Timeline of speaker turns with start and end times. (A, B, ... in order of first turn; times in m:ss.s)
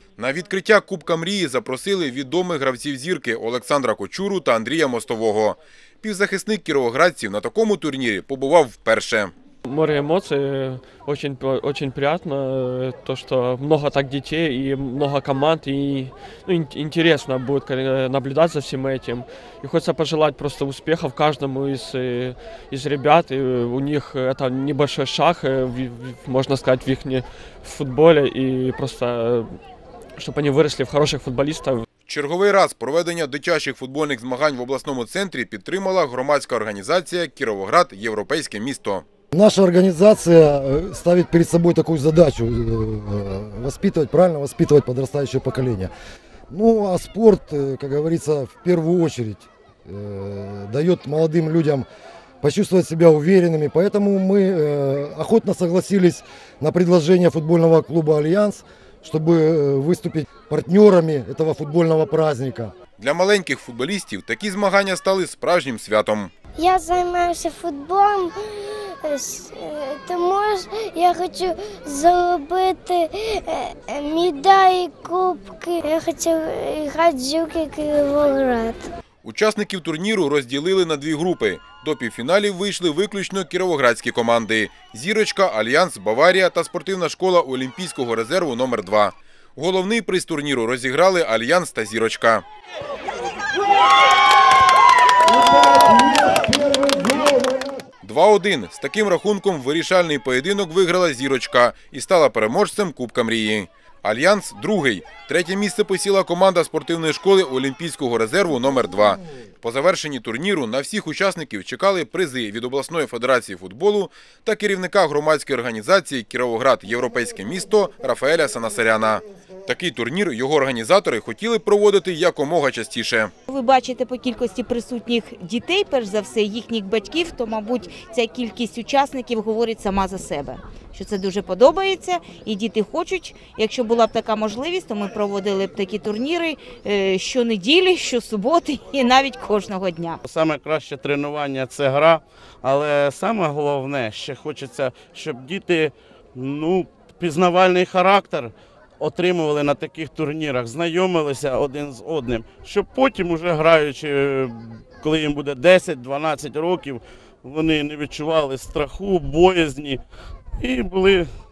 0:00.2-0:09.3 A
0:09.6-0:29.5 B
0:30.2-0:31.8 B
0:32.1-0:39.0 A
0:39.3-0:45.9 C
0:46.5-0:51.9 C
0:52.4-1:02.7 C
1:03.0-1:06.3 A
1:06.6-1:18.9 D
1:19.2-1:32.4 A
1:35.4-1:37.7 C
1:38.0-2:03.3 A
2:03.5-2:20.2 E
2:20.2-2:40.0 F
2:40.6-2:41.3 F